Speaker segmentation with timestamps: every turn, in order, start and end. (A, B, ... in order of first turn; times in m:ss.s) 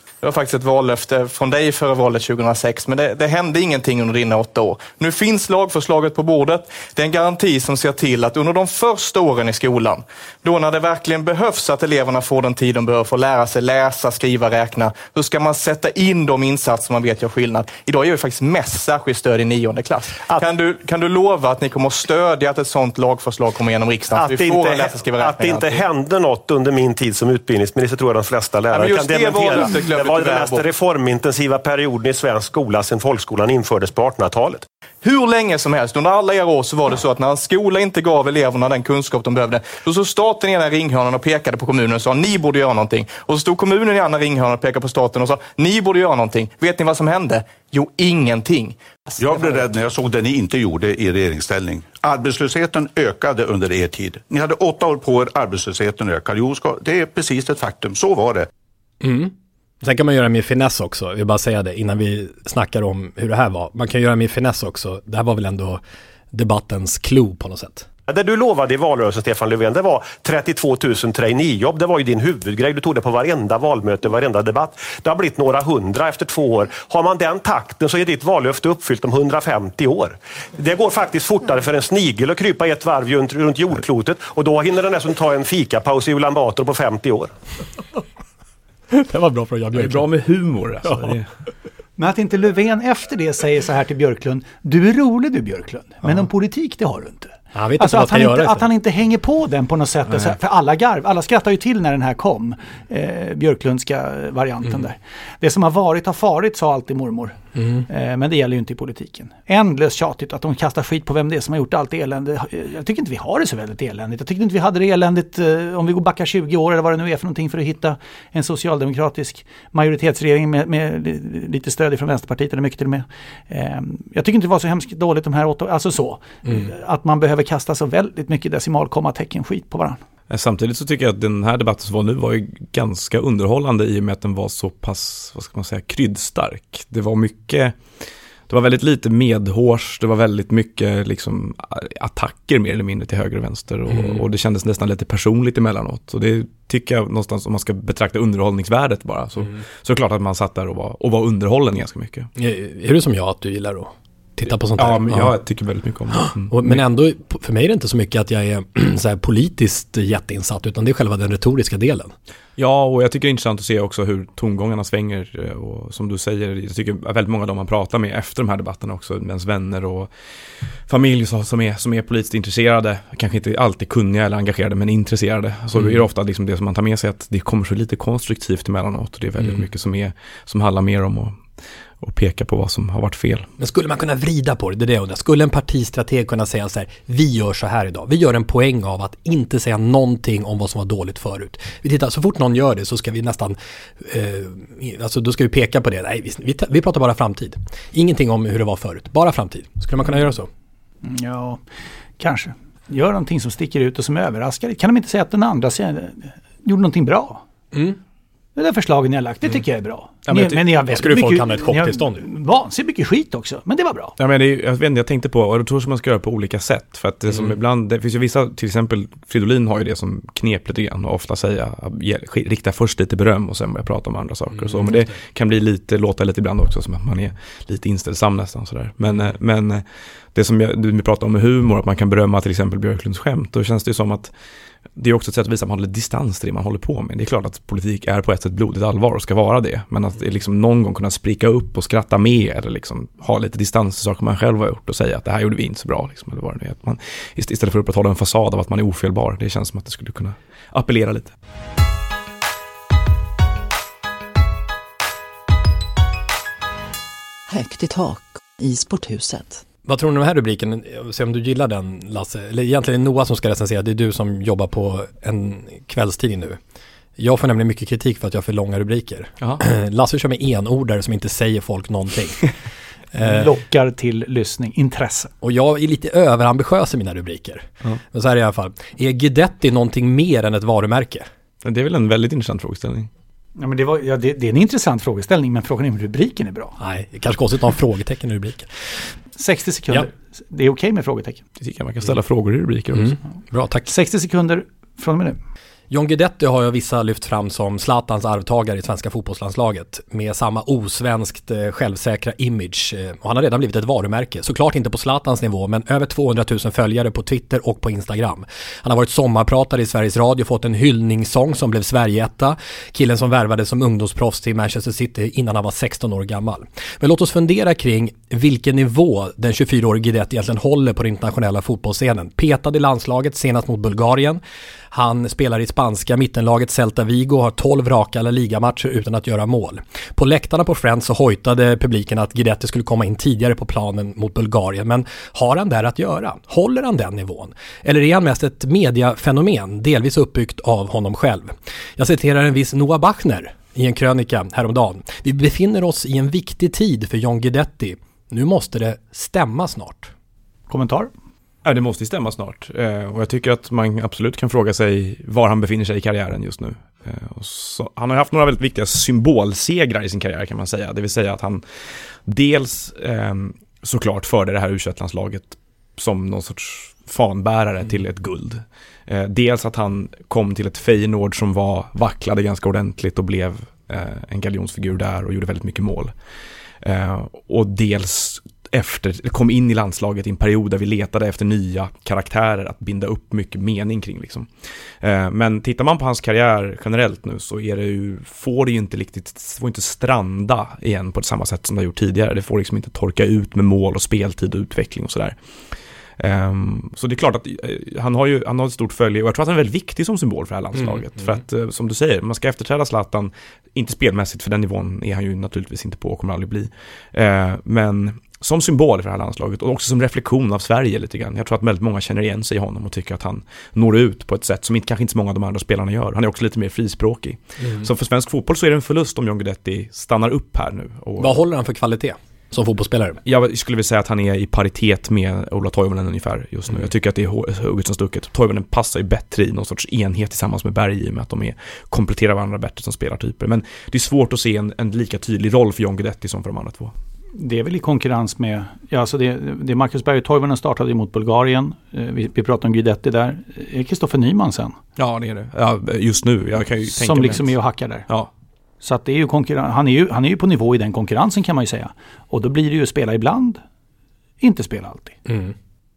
0:00.2-0:25.8 A
0:24.1-0:34.7 B
0:28.7-0:30.7 A
0:35.0-0:48.8 A
0:49.2-0:58.5 C
0:59.0-1:05.8 D
1:06.3-1:07.9 D
1:08.1-1:27.3 B
1:28.9-1:30.0 D
1:29.7-1:31.3 E
1:30.8-1:31.2 D
1:32.0-2:10.0 F
1:37.5-1:38.7 D
1:47.6-1:47.9 D
2:10.3-2:17.8 E
2:18.5-2:32.3 E
2:23.9-2:24.2 D
2:32.4-2:35.4 D
2:34.8-2:36.8 E
2:36.1-2:42.1 D
2:42.6-2:50.1 E
2:50.9-3:01.4 E
2:55.8-2:56.0 D
3:02.0-3:03.5 E
3:03.6-3:20.5 D
3:21.0-3:21.6 F
3:22.2-3:27.4 F
3:27.7-3:28.0 D
3:28.6-3:34.2 F
3:30.3-3:30.6 E
3:30.6-3:32.3 D
3:34.2-3:49.8 E
3:37.3-3:37.6 D
3:44.5-3:45.1 D
3:50.4-3:54.3 E
3:55.0-4:11.3 E
4:17.5-4:19.6 G
4:19.8-4:26.6 D
4:27.2-4:32.5 D
4:33.1-4:33.5 D
4:33.2-4:35.3 F
4:35.4-4:41.3 D
4:41.6-4:43.1 E
4:43.6-4:46.8 F
4:46.8-4:49.0 D
4:49.4-4:51.4 F
4:51.6-4:53.2 E
4:52.9-4:53.9 D
4:53.9-4:55.4 F
4:55.9-5:50.1 D
5:50.7-5:51.1 F
5:51.6-6:01.6 E
6:02.3-6:16.1 E
6:16.8-6:24.5 E
6:25.0-6:35.4 E
6:36.2-7:01.4 E
6:40.8-6:41.4 D
6:57.6-6:57.9 D
7:01.2-7:03.2 D
7:03.2-7:16.9 E
7:17.4-7:24.8 F
7:25.0-7:27.6 E
7:26.9-7:28.1 F
7:28.8-7:33.6 F
7:34.4-7:35.2 F
7:35.3-7:35.5 D